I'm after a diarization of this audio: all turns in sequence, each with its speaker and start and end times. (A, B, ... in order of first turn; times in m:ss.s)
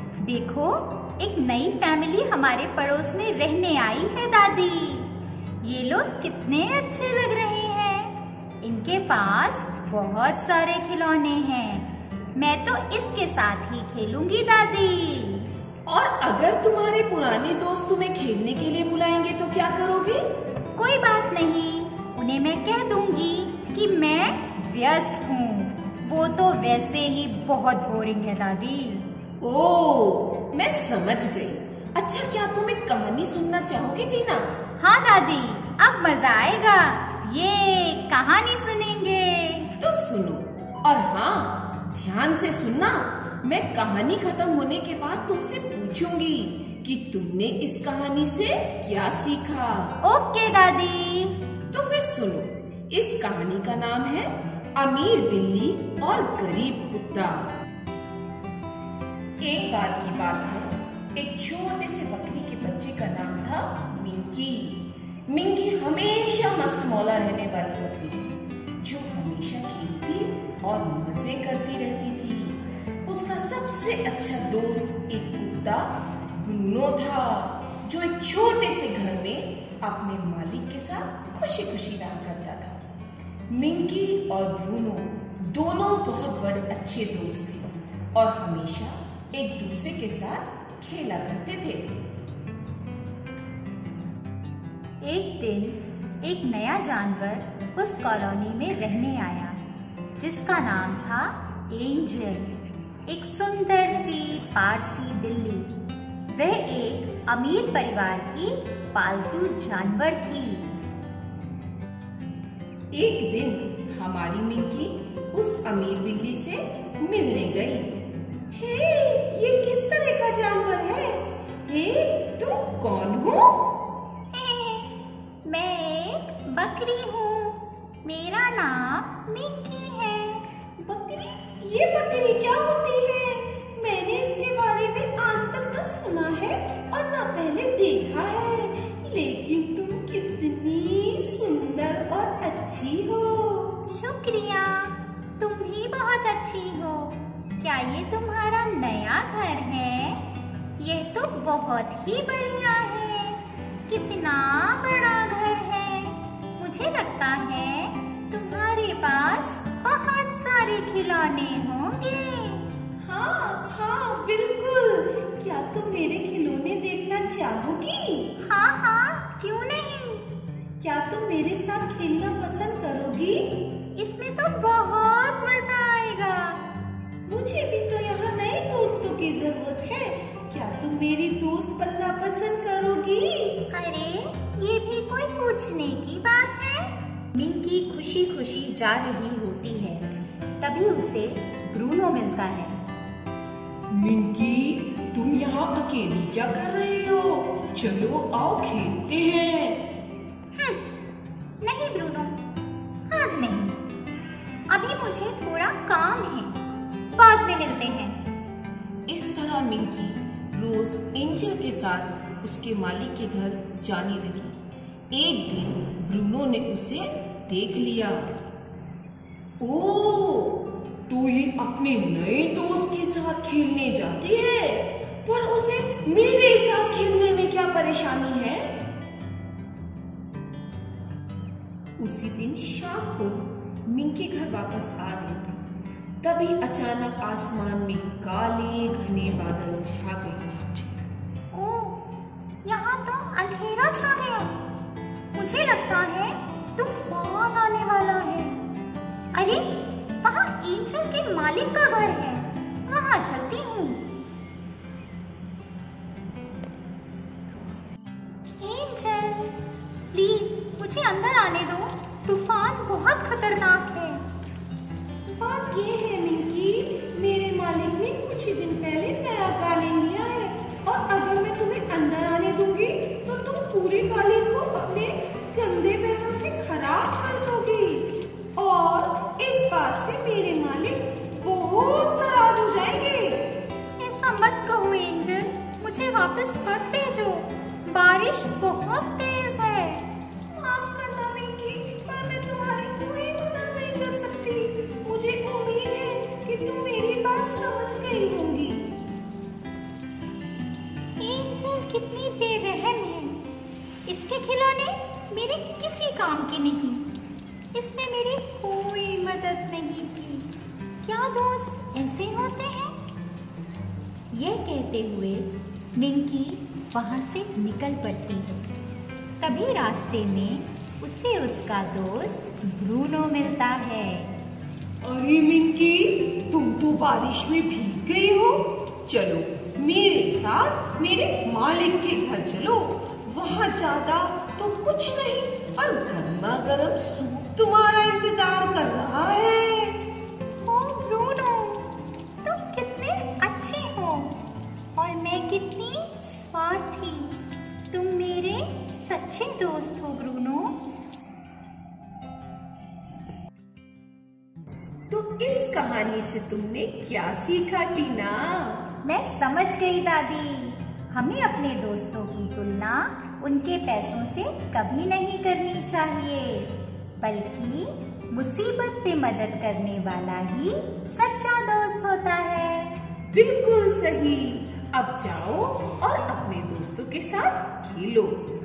0:00.2-0:15.5 A
0:15.8-0:20.2 B
0:20.8-0:29.1 A
0:29.4-0:34.5 B
0:34.8-0:39.7 A
0:39.8-0:50.0 B
0:50.0-0:51.4 A
0:51.7-0:57.5 B
0:59.4-1:22.8 B
1:23.5-1:31.9 B
1:35.0-1:39.6 A
1:40.2-1:42.5 A
1:43.1-1:45.7 A
1:46.3-1:50.7 A
1:52.9-1:58.0 B
1:58.5-2:03.6 B
2:04.3-2:10.5 A
2:10.8-2:23.8 B
2:23.9-2:30.2 A
2:30.8-2:42.6 A
2:43.0-2:48.3 B
2:48.4-2:50.2 A
2:50.8-2:53.5 B
2:53.9-2:56.6 A
2:57.2-3:03.6 B
3:03.7-3:12.8 A
3:13.9-3:19.8 B
3:20.6-3:20.8 A
3:21.6-3:22.4 A
3:23.1-3:23.8 A
3:24.7-3:26.6 A
3:27.1-3:28.2 A
3:29.1-3:34.6 B
3:35.1-3:38.3 B
3:39.6-3:48.7 B
3:52.0-3:55.6 B
3:56.2-4:00.9 B
4:01.5-4:02.0 A
4:02.6-4:04.6 A
4:05.3-4:08.6 A
4:09.3-4:09.7 A
4:10.2-4:14.0 A
4:18.6-4:19.6 A
4:20.1-4:24.2 A
4:25.3-4:43.4 B
4:44.0-4:50.1 A
4:50.5-4:58.9 B
5:01.2-5:03.4 A
5:04.0-5:07.1 A
5:07.7-5:10.5 A
5:11.0-5:13.0 A
5:14.3-5:18.7 A
5:19.4-5:24.3 A
5:25.0-5:40.0 B
5:40.6-5:41.9 A
5:42.4-5:44.4 A
5:44.9-5:50.8 A
5:55.1-5:58.8 B
5:59.0-6:13.0 A
6:13.3-6:18.4 B